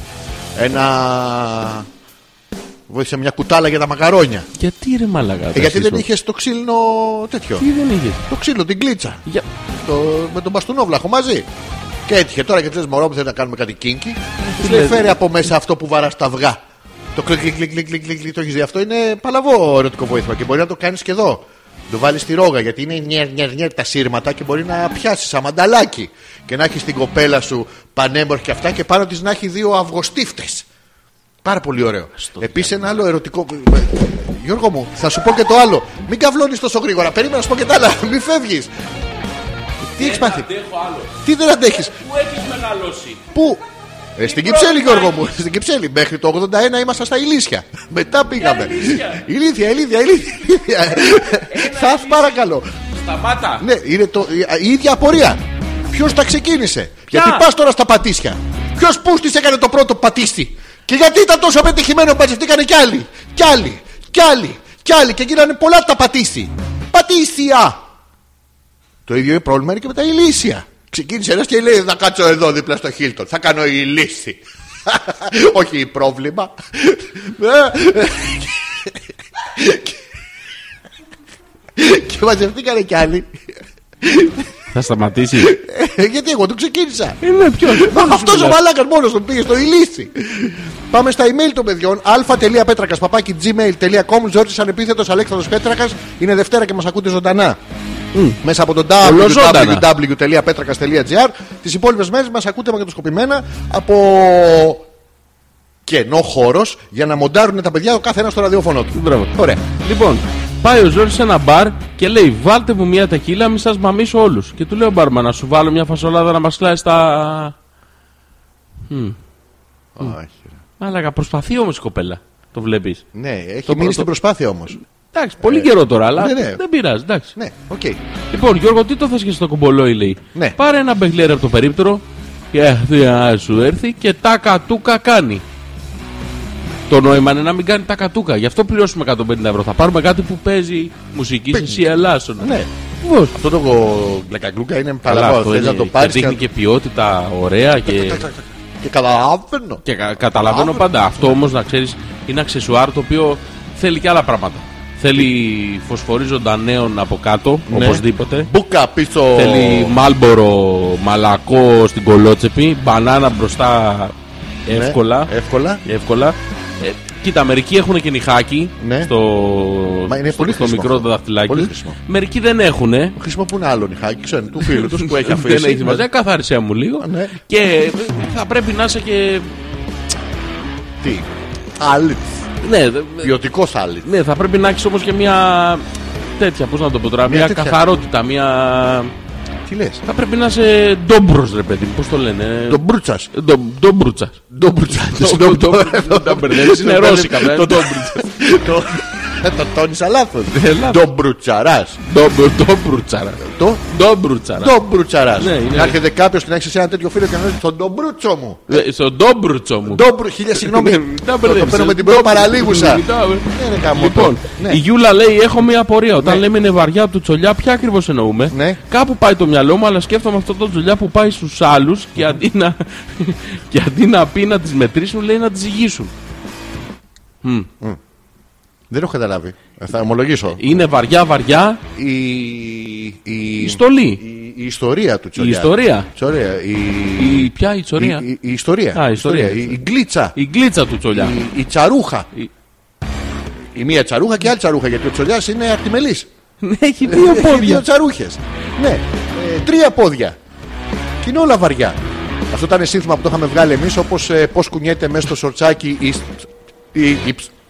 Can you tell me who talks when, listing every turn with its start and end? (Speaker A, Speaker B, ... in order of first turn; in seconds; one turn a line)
Speaker A: 0.6-1.9
Speaker A: 2.9-4.5
Speaker B: 4.6-6.1
Speaker A: 5.5-7.7
Speaker B: 7.6-8.2
Speaker A: 8.3-9.2
Speaker A: 9.7-11.5
Speaker A: 12.1-16.6
Speaker B: 14.5-15.2
Speaker A: 17.1-30.7
Speaker A: 31.4-38.7
Speaker B: 32.2-33.0
Speaker A: 39.9-40.5
Speaker B: 40.0-41.1
Speaker A: 41.2-42.0
Speaker B: 41.7-43.2
Speaker A: 43.3-43.6
Speaker A: 44.2-52.7
Speaker B: 44.2-45.2
Speaker B: 48.4-49.2
Speaker B: 51.0-52.4
Speaker B: 52.9-53.7
Speaker A: 53.6-67.8
Speaker B: 57.1-57.5
Speaker A: 69.1-80.0
Speaker A: 81.8-84.5
Speaker B: 84.7-85.6
Speaker A: 85.3-97.6
Speaker B: 87.2-88.6
Speaker B: 98.1-98.4
Speaker A: 98.4-104.9
Speaker B: 99.0-99.9
Speaker A: 105.9-109.6
Speaker B: 108.9-117.5
Speaker B: 118.9-119.2
Speaker A: 120.0-120.6
Speaker B: 120.8-123.0
Speaker A: 123.1-124.8
Speaker B: 123.7-124.1
Speaker B: 125.1-127.3
Speaker A: 125.4-126.6
Speaker A: 127.3-128.0
Speaker B: 128.3-135.4
Speaker B: 136.9-143.3
Speaker A: 141.5-141.8
Speaker A: 142.4-142.7
Speaker A: 143.3-146.4
Speaker B: 145.1-148.2
Speaker A: 147.8-149.8
Speaker B: 149.8-158.5
Speaker A: 150.3-150.9
Speaker A: 157.7-159.9
Speaker B: 159.3-164.2
Speaker B: 164.7-165.3
Speaker A: 164.7-165.8
Speaker B: 165.8-173.2
Speaker A: 168.8-169.1
Speaker A: 170.1-172.0
Speaker A: 173.2-176.1
Speaker B: 174.7-179.5
Speaker A: 177.0-177.3
Speaker A: 181.0-182.4
Speaker B: 182.6-183.3
Speaker A: 183.2-184.1
Speaker B: 184.0-185.8
Speaker B: 186.4-189.1
Speaker A: 187.2-187.8
Speaker A: 189.7-190.0
Speaker B: 190.0-192.8
Speaker A: 192.7-193.3
Speaker B: 193.3-194.4
Speaker A: 194.5-202.0
Speaker B: 195.1-198.3
Speaker B: 200.5-201.0
Speaker B: 202.1-204.7
Speaker A: 203.4-203.8
Speaker A: 204.6-208.8
Speaker B: 205.4-206.0
Speaker B: 208.7-210.1
Speaker A: 209.9-214.8
Speaker B: 210.6-226.1
Speaker A: 216.2-216.4
Speaker A: 218.5-218.8
Speaker B: 227.4-227.7
Speaker A: 228.9-230.8
Speaker B: 230.6-231.8
Speaker A: 231.9-240.4
Speaker B: 233.6-234.2
Speaker B: 235.4-236.1
Speaker B: 237.2-238.3
Speaker B: 238.9-239.8
Speaker B: 240.3-241.4
Speaker A: 241.1-242.3
Speaker A: 243.7-246.3
Speaker B: 246.6-247.8
Speaker A: 247.0-250.4
Speaker A: 251.2-257.5